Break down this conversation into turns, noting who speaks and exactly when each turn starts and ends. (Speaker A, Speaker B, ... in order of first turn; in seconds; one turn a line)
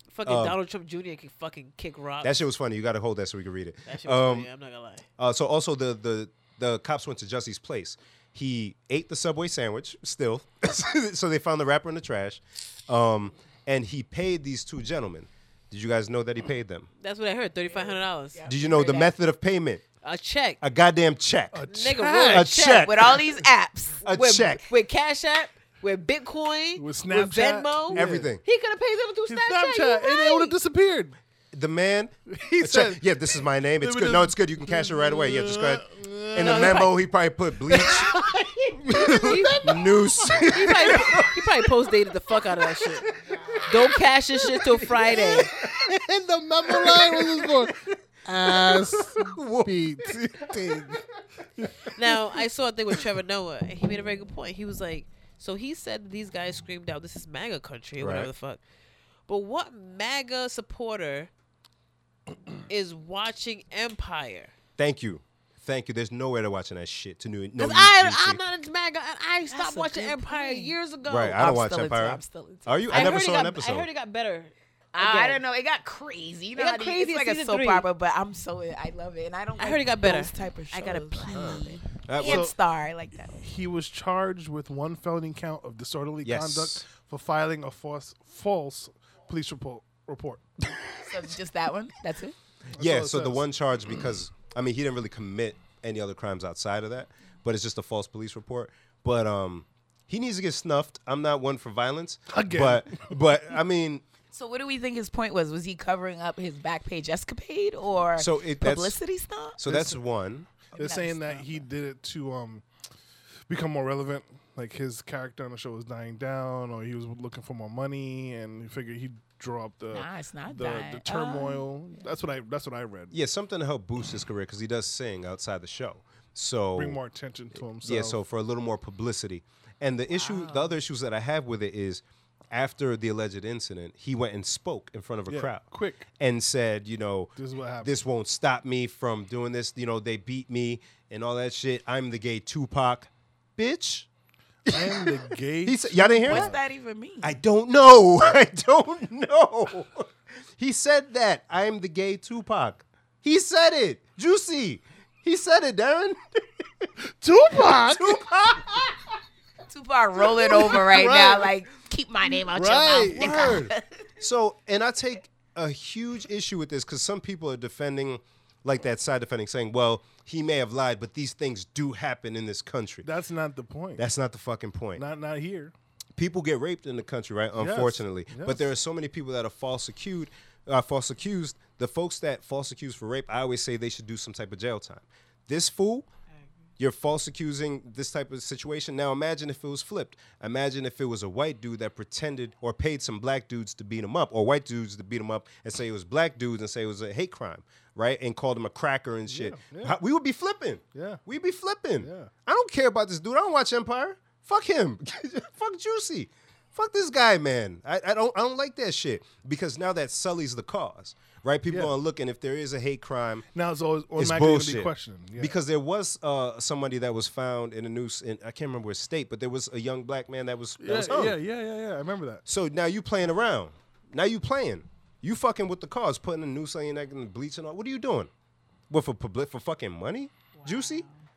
Speaker A: 0.1-2.4
Speaker B: 0.2-0.6
Speaker B: 2.2-4.5
Speaker A: 3.9-5.0
Speaker B: 5.2-16.9
Speaker A: 17.0-18.5
Speaker C: 17.7-19.1
Speaker B: 18.4-19.8
Speaker A: 20.0-20.6
Speaker B: 20.6-21.7
Speaker D: 21.5-22.6
Speaker A: 21.7-23.2
Speaker B: 22.3-23.2
Speaker C: 22.8-24.1
Speaker A: 24.0-30.6
Speaker B: 24.0-24.7
Speaker D: 26.8-28.3
Speaker B: 27.9-28.4
Speaker D: 29.3-31.1
Speaker B: 31.5-38.1
Speaker D: 32.3-33.1
Speaker D: 33.8-36.9
Speaker A: 36.4-37.0
Speaker D: 37.7-41.3
Speaker B: 38.8-41.4
Speaker A: 38.9-39.8
Speaker A: 40.5-43.1
Speaker C: 43.3-43.6
Speaker A: 43.7-45.5
Speaker B: 44.8-45.7
Speaker D: 45.0-51.0
Speaker B: 46.7-51.0
Speaker D: 51.6-52.2
Speaker A: 51.9-58.6
Speaker B: 58.0-58.3
Speaker A: 59.3-61.3
Speaker A: 62.7-64.5
Speaker B: 64.8-68.4
Speaker A: 67.6-71.4
Speaker C: 69.5-70.7
Speaker B: 71.0-73.9
Speaker C: 71.3-73.4
Speaker A: 72.9-75.4
Speaker C: 74.9-83.4
Speaker A: 76.5-77.9
Speaker A: 79.6-81.8
Speaker B: 81.3-82.5
Speaker D: 82.2-82.5
Speaker D: 83.4-90.5
Speaker B: 86.2-86.9
Speaker C: 91.0-92.4
Speaker D: 92.7-93.5
Speaker B: 92.7-104.0
Speaker D: 102.3-103.2
Speaker C: 104.3-109.6
Speaker B: 108.2-109.0
Speaker B: 109.6-110.5
Speaker D: 109.7-110.0
Speaker D: 110.7-112.6
Speaker C: 110.7-111.6
Speaker D: 113.5-123.1
Speaker C: 119.9-121.6
Speaker B: 123.1-127.0
Speaker D: 126.8-128.2
Speaker B: 127.8-135.7
Speaker C: 130.1-130.8
Speaker D: 135.3-136.1
Speaker B: 136.2-144.1
Speaker D: 137.4-137.9
Speaker D: 144.7-146.6
Speaker B: 144.7-146.5
Speaker C: 146.3-147.3
Speaker B: 147.2-156.9
Speaker D: 157.0-158.9
Speaker B: 157.7-158.8
Speaker C: 159.7-164.1
Speaker D: 160.2-161.6
Speaker D: 162.5-163.7
Speaker B: 163.2-163.6
Speaker B: 164.2-173.1
Speaker D: 173.0-174.1
Speaker B: 174.0-175.0
Speaker D: 174.9-175.7
Speaker B: 176.2-186.1
Speaker D: 177.6-178.7
Speaker B: 186.8-213.4
Speaker D: 199.3-200.0
Speaker D: 200.9-201.2
Speaker D: 202.0-202.3
Speaker D: 213.5-215.6
Speaker B: 214.2-221.4
Speaker D: 220.8-222.4
Speaker B: 222.4-228.3
Speaker B: 228.9-231.1
Speaker C: 230.6-231.2